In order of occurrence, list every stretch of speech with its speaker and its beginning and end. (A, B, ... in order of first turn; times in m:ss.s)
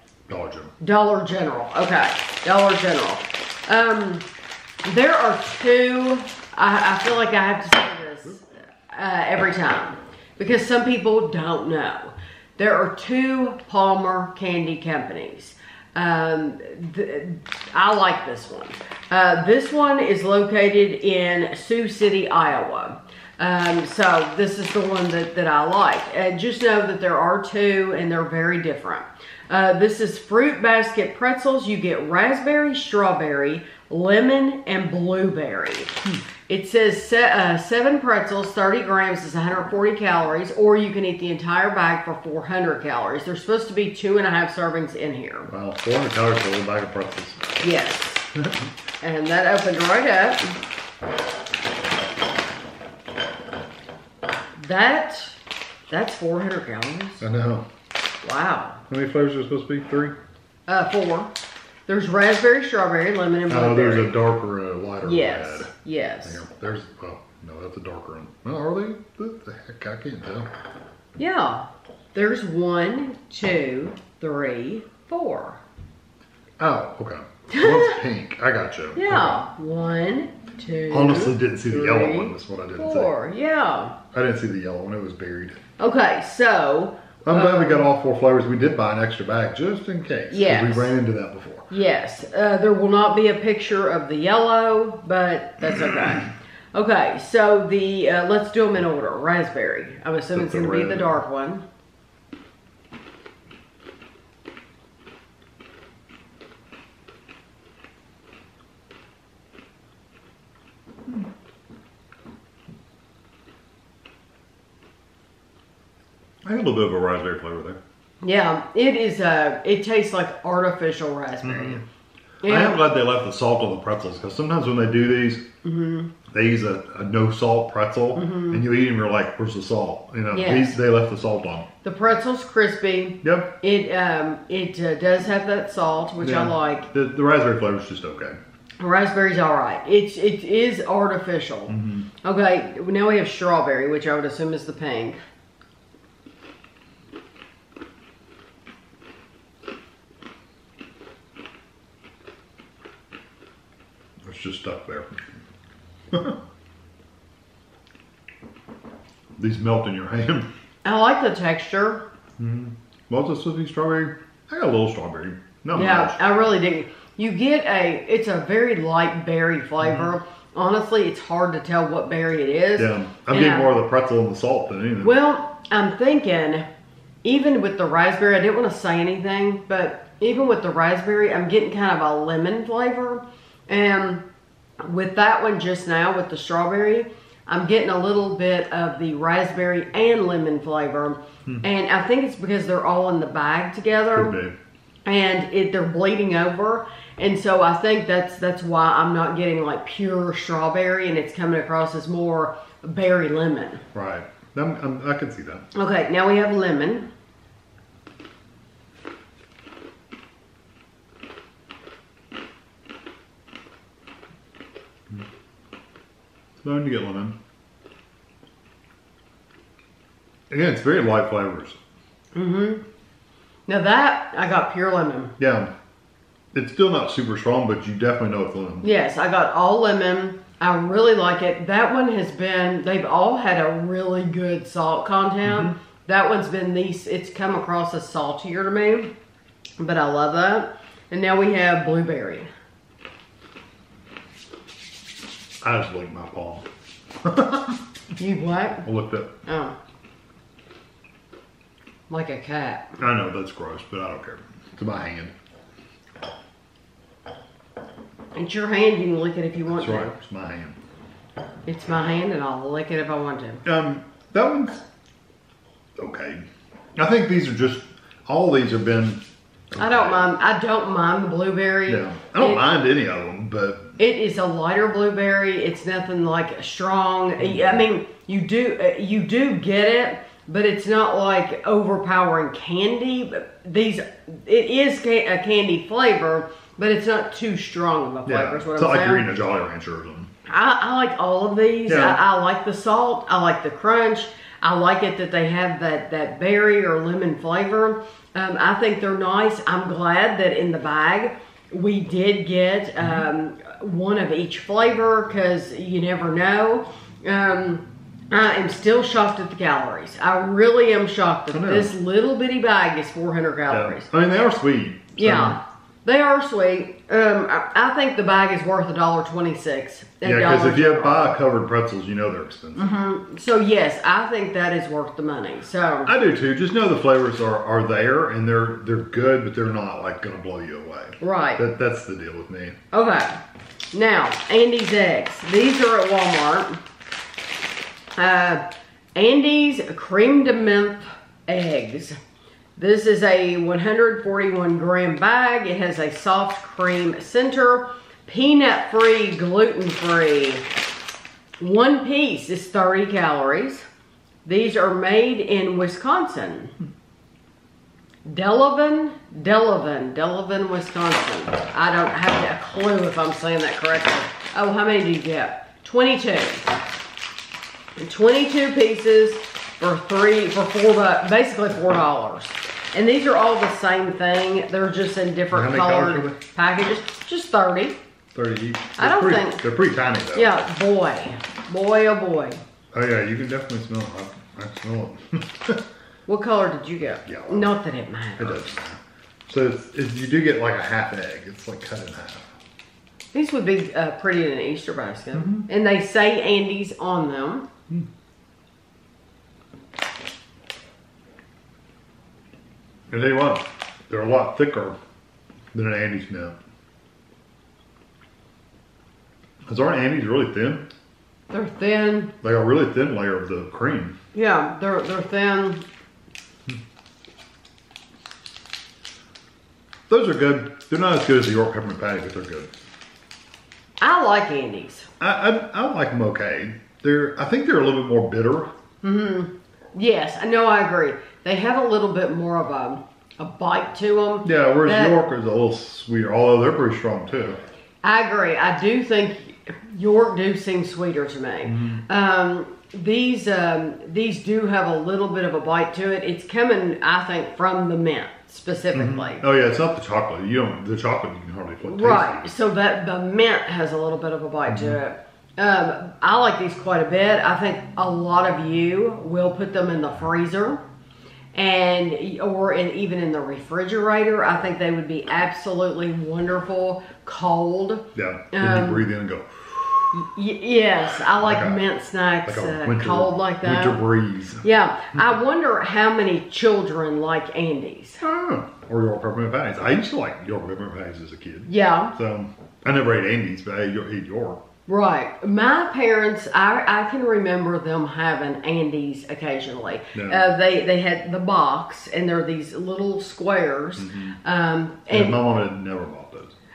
0:00.3-0:00.7 A
0:00.8-0:04.3 B
0:04.8-0:45.5 B
0:45.5-0:47.5 A
0:47.6-0:48.3 B
0:48.4-0:48.6 A
0:49.0-0:50.6 B
0:54.6-0:55.4 B
0:55.9-0:57.2 B
0:57.2-0:57.6 A
0:58.2-0:58.8 B
0:58.9-1:00.1 A
1:00.7-1:01.3 B
1:01.9-1:04.2 B
1:03.5-1:05.7 A
1:05.0-1:06.4 B
1:06.2-1:10.5 A
1:11.2-1:15.6 B
1:16.6-1:19.4 A
1:17.5-1:18.0 B
1:18.9-1:24.0 B
1:20.9-1:23.1 A
1:24.1-1:25.6 A
1:25.8-1:27.8 B
1:27.2-1:31.7 A
1:30.3-1:30.9 B
1:31.7-1:41.6 B
1:40.3-1:41.1 A
1:56.4-1:57.8 A
1:58.2-2:01.8 B
2:01.4-2:01.8 A
2:02.4-2:02.8 B
2:02.4-2:05.4 A
2:05.6-2:06.1 B
2:06.3-2:11.7 A
2:08.1-2:08.6 B
2:10.3-2:10.8 B
2:11.8-2:16.9 B
2:13.2-2:13.5 A
2:16.2-2:18.4 A
2:18.8-2:25.2 B
2:21.7-2:22.1 A
2:34.2-2:35.4 A
2:36.1-2:36.4 A
2:39.4-2:40.5 A
2:40.8-2:42.0 B
2:42.4-2:46.2 A
2:45.7-2:53.7 B
2:49.8-2:50.1 A
2:52.8-2:55.2 A
2:55.0-2:56.6 B
2:57.2-3:04.2 B
3:04.8-3:14.4 B
3:14.1-3:14.5 A
3:15.0-3:23.8 B
3:23.9-3:25.6 A
3:25.7-3:27.1 B
3:36.6-3:37.4 A
3:40.5-3:41.8 A
3:42.3-3:42.8 B
3:43.7-3:45.3 B
3:45.4-3:45.7 A
3:46.5-3:48.9 A
3:48.8-3:59.1 B
3:55.4-3:55.7 A
3:59.8-4:02.5 B
4:05.6-4:06.7 A
4:07.2-4:07.8 A
4:08.2-4:08.8 B
4:08.8-4:09.3 A
4:09.4-4:09.7 B
4:12.1-4:12.9 B
4:13.0-4:15.3 A
4:18.3-4:20.1 B
4:19.7-4:20.8 A
4:21.6-4:23.6 B
4:23.6-4:24.8 A
4:26.0-4:26.4 A
4:27.0-4:30.3 A
4:29.8-4:32.6 B
4:31.9-4:34.0 A
4:34.0-4:49.3 B
4:37.4-4:37.8 A
4:48.2-4:50.3 A
4:50.5-5:14.1 B
4:51.9-4:52.2 A
5:03.0-5:03.2 A
5:11.5-5:11.9 A
5:13.7-5:15.6 A
5:15.2-5:21.3 B
5:20.2-5:22.9 A
5:22.8-5:26.1 B
5:26.0-5:32.8 A
5:31.2-5:31.6 B
5:32.9-5:33.4 B
5:33.9-5:36.8 B
5:38.2-5:38.6 B
5:39.1-5:42.2 B
5:42.8-5:50.6 B
5:51.6-5:53.8 B
5:54.4-5:56.7 B
5:58.2-6:06.6 B
6:08.0-6:18.0 B
6:15.5-6:16.4 A
6:18.3-6:20.6 A
6:19.0-6:19.6 B
6:20.3-6:22.6 B
6:22.9-6:25.8 A
6:26.3-6:28.7 B
6:27.2-6:27.7 A
6:28.4-6:32.5 A
6:33.3-6:37.6 B
6:35.3-6:35.7 A
6:43.1-6:45.0 A
6:45.7-6:46.6 A
6:49.6-6:50.9 A
6:51.5-6:52.3 B
6:52.4-6:54.1 A
6:54.3-6:55.8 B
7:00.1-7:02.7 A
7:04.0-7:05.1 B
7:05.2-7:08.7 A
7:09.0-7:15.2 B
7:14.4-7:17.6 A
7:18.0-7:29.4 B
7:21.6-7:22.0 A
7:28.9-7:32.5 A
7:31.8-7:40.8 B
7:34.7-7:35.0 A
7:41.5-7:49.1 B
7:48.1-7:50.2 A
7:50.1-7:54.0 B
7:51.1-7:51.8 A
7:52.4-7:54.6 A
7:54.6-7:58.2 B
7:58.2-8:04.6 A
8:01.7-8:02.1 B
8:04.9-8:15.4 B
8:10.1-8:10.5 A
8:14.0-8:14.4 A
8:15.1-8:16.5 A